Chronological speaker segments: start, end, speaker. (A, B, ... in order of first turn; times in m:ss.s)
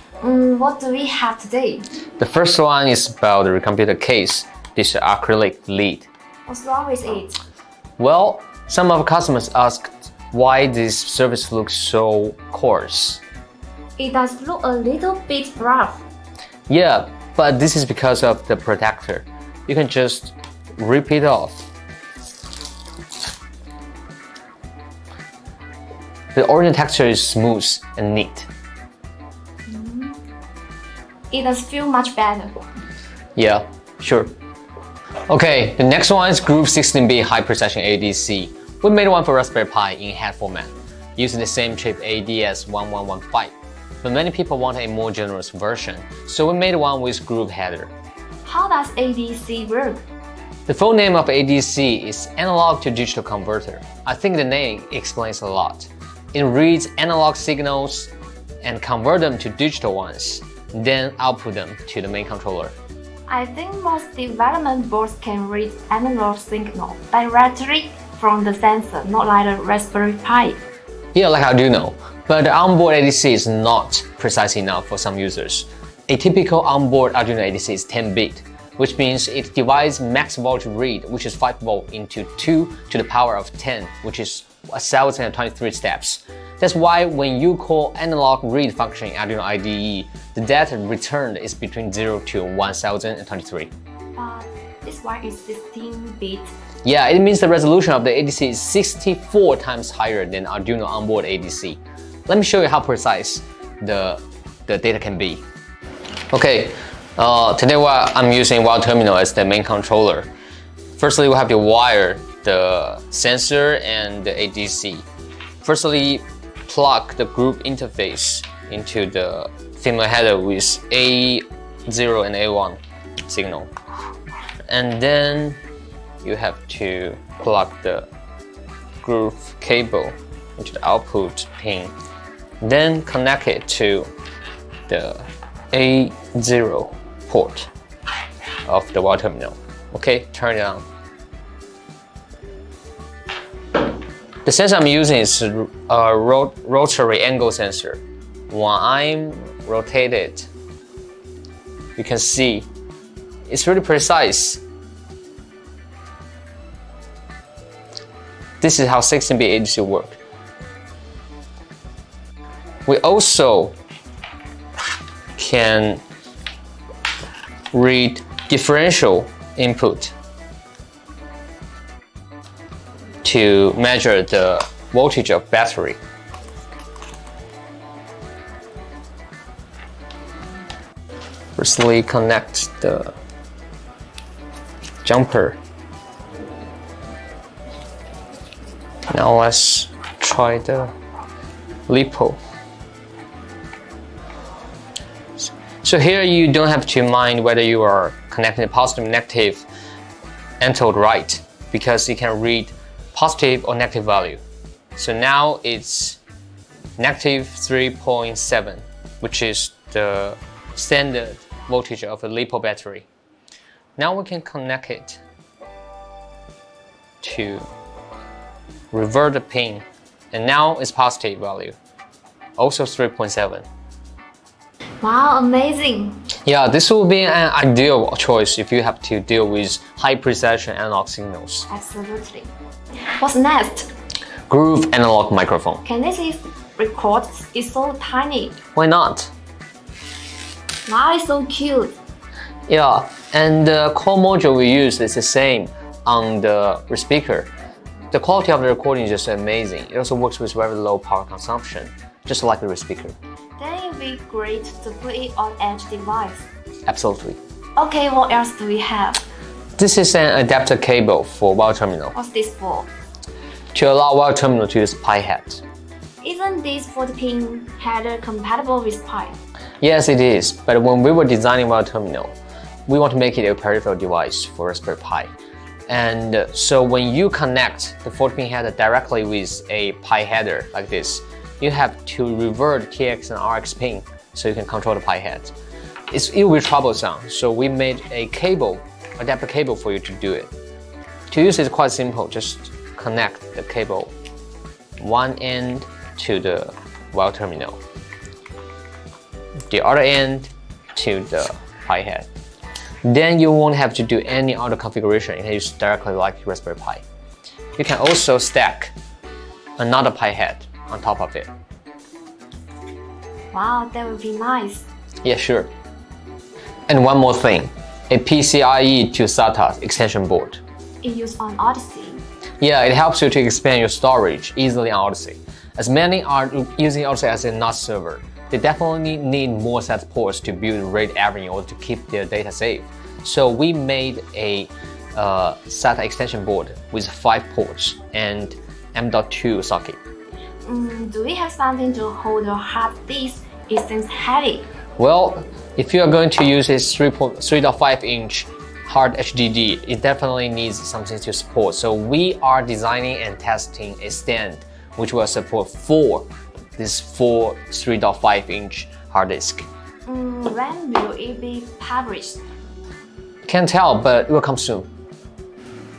0:00.2-0:01.9 A
0:02.2-0:06.1 B
0:06.5-0:07.4 A
0:08.0-0:13.2 B
0:14.0-0:16.0 A
0:16.7-0:21.7 B
0:26.3-0:28.5 B
0:29.7-0:30.2 A
0:31.3-0:32.6 A
0:33.4-0:34.3 B
0:35.3-0:47.9 B
0:48.4-0:50.0 A
0:50.7-0:58.1 B
0:58.6-1:02.7 B
1:03.3-1:10.6 A
1:11.1-1:33.7 B
1:34.2-1:36.5 A
1:36.8-1:45.4 B
1:46.3-1:50.3 B
1:51.0-1:55.0 B
1:55.6-2:03.7 B
2:04.7-2:05.6 B
2:06.2-2:08.1 B
2:09.0-2:11.9 B
2:12.6-2:14.1 B
2:14.9-2:17.7 B
2:18.6-2:20.8 B
2:24.4-2:30.5 B
2:32.0-2:32.7 B
2:33.5-2:34.6 B
2:38.6-2:40.2 B
2:42.8-2:43.7 B
2:45.4-2:46.0 B
2:47.7-2:50.1 B
2:53.2-2:56.0 B
3:01.6-3:03.1 B
3:05.0-3:05.6 B
3:09.1-3:10.9 B
3:11.9-3:12.4 B
3:15.4-3:19.6 B
3:20.6-3:24.4 B
3:25.0-3:26.2 B
3:27.0-3:33.1 B
3:34.0-3:35.2 B
3:37.2-3:37.6 B
3:38.9-3:41.8 B
3:42.6-3:43.6 B
3:45.0-3:46.2 A
3:46.4-3:51.7 B
3:51.7-3:52.5 A
3:53.1-3:53.9 A
3:54.5-3:55.8 B
3:55.8-3:58.6 A
3:58.7-3:59.3 B
4:00.8-4:02.0 A
4:02.7-4:07.5 B
4:08.1-4:13.2 B
4:13.6-4:16.5 A
4:16.9-4:17.4 B
4:17.8-4:19.2 A
4:19.8-4:22.1 B
4:22.1-4:22.9 A
4:23.7-4:25.6 B
4:26.2-4:29.4 A
4:29.8-4:32.3 B
4:32.9-4:35.3 B
4:35.9-4:45.5 B
4:46.1-4:50.5 B
4:51.3-4:54.1 B
4:55.0-4:57.8 B
4:59.7-5:02.3 B
5:03.0-5:07.0 B
5:07.8-5:08.9 B
5:09.8-5:11.5 B
5:13.5-5:14.9 A
5:15.2-5:15.7 B
5:16.9-5:20.6 B
5:21.0-5:22.2 A
5:22.6-5:40.0 B
5:40.6-5:44.7 A
5:45.0-5:59.7 B
6:00.0-6:02.4 A
6:03.5-6:04.9 B